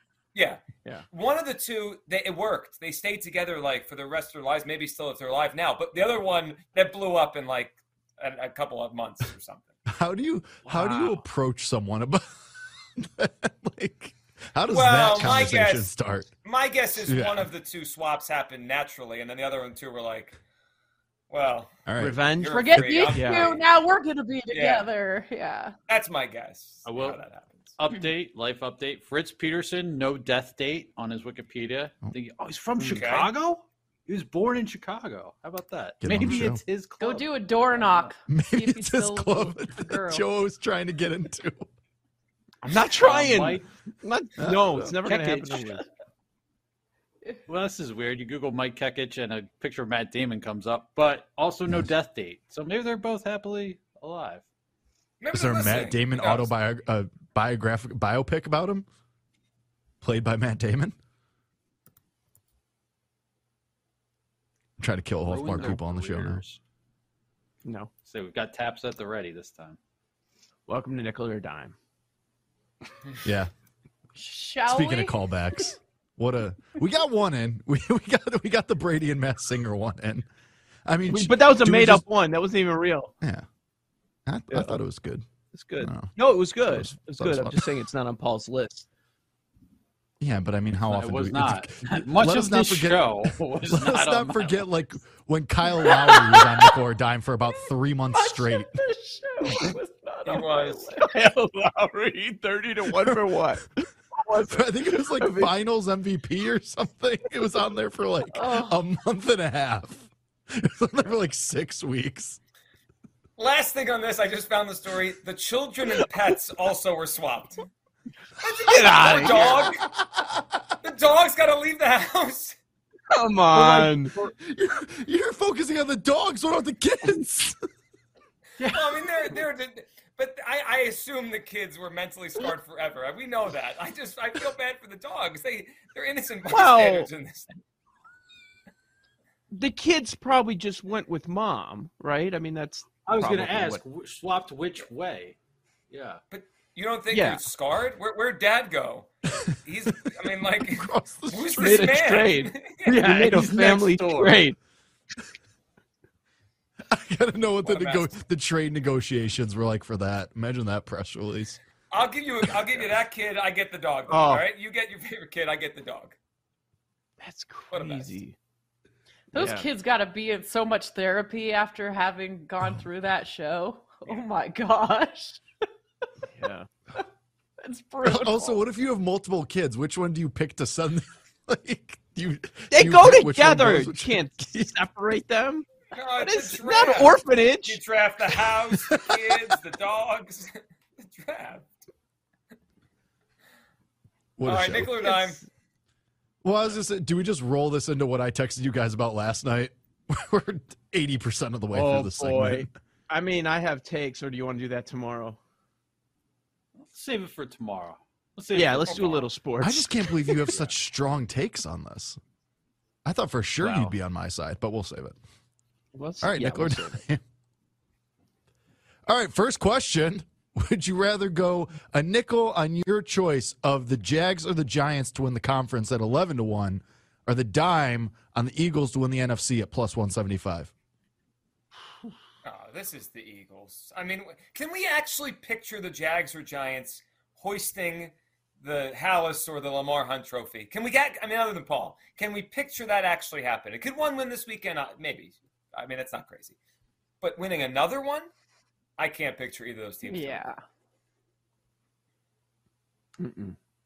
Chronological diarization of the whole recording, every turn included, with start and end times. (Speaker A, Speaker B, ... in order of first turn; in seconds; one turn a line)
Speaker A: 0.3-9.7
Speaker B: 9.9-12.4
Speaker C: 10.6-11.2
Speaker B: 12.9-16.3
Speaker A: 14.7-20.4
Speaker B: 17.1-17.5
Speaker A: 21.3-23.6
Speaker B: 21.9-23.1
Speaker C: 22.0-22.5
Speaker D: 22.4-25.7
Speaker C: 23.1-23.5
Speaker A: 24.5-24.9
Speaker A: 25.9-27.8
Speaker E: 26.9-27.2
Speaker E: 27.8-38.1
Speaker A: 32.8-33.3
Speaker B: 36.0-36.6
Speaker D: 37.0-40.2
Speaker B: 38.3-41.6
Speaker C: 42.6-45.8
Speaker E: 42.9-43.6
Speaker B: 44.4-45.2
Speaker E: 45.0-45.6
Speaker E: 47.5-54.5
Speaker A: 55.2-56.5
Speaker B: 55.3-58.9
Speaker B: 60.0-60.9
Speaker B: 64.8-66.4
Speaker E: 65.2-66.6
Speaker E: 68.0-69.8
Speaker C: 70.7-71.7
Speaker B: 73.2-73.5
Speaker D: 74.2-75.2
Speaker B: 74.7-80.2
Speaker B: 80.8-82.0
Speaker C: 81.1-83.1
Speaker B: 84.3-85.2
Speaker C: 84.5-84.8
Speaker C: 85.5-88.8
Speaker B: 85.8-86.2
Speaker B: 86.7-87.8
Speaker B: 90.2-98.8
Speaker E: 90.8-94.7
Speaker D: 95.8-96.4
Speaker D: 98.1-101.0
Speaker A: 100.2-101.0
Speaker C: 101.0-103.6
Speaker C: 104.2-104.6
Speaker B: 104.4-112.4
Speaker C: 105.2-105.5
Speaker D: 108.3-108.8
Speaker A: 113.4-117.7
Speaker A: 118.4-119.8
Speaker C: 118.7-119.6
Speaker B: 119.2-120.4
Speaker A: 120.8-122.5
Speaker C: 123.1-124.1
Speaker B: 123.5-127.6
Speaker E: 128.6-129.4
Speaker A: 128.6-137.6
Speaker C: 136.5-137.1
Speaker C: 139.5-143.8
Speaker E: 143.0-145.4
Speaker E: 145.9-146.2
Speaker A: 146.3-149.1
Speaker C: 147.1-147.4
Speaker A: 149.6-153.0
Speaker B: 150.7-152.0
Speaker C: 151.6-152.5
Speaker E: 152.8-154.4
Speaker C: 153.0-154.6
Speaker B: 156.9-161.6
Speaker A: 157.6-158.1
Speaker A: 161.9-166.1
Speaker C: 164.1-164.4
Speaker C: 167.2-168.3
Speaker A: 167.7-168.2
Speaker D: 169.3-175.4
Speaker C: 169.4-169.7
Speaker B: 172.6-172.9
Speaker C: 176.4-176.7
Speaker D: 177.6-178.6
Speaker B: 178.0-184.7
Speaker C: 182.7-185.7
Speaker A: 185.9-191.7
Speaker C: 186.2-187.8
Speaker B: 188.7-189.2
Speaker B: 194.4-195.0
Speaker A: 194.4-195.4
Speaker B: 196.4-202.7
Speaker C: 201.9-205.4
Speaker E: 206.7-209.3
Speaker C: 208.5-210.4
Speaker B: 209.6-212.2
Speaker B: 213.0-215.2
Speaker C: 213.6-213.9
Speaker C: 215.9-217.0
Speaker B: 216.2-217.2
Speaker B: 219.1-230.7
Speaker A: 232.4-246.6
Speaker A: 247.2-248.3
Speaker A: 249.0-250.4
Speaker D: 250.1-250.6
Speaker C: 253.2-253.6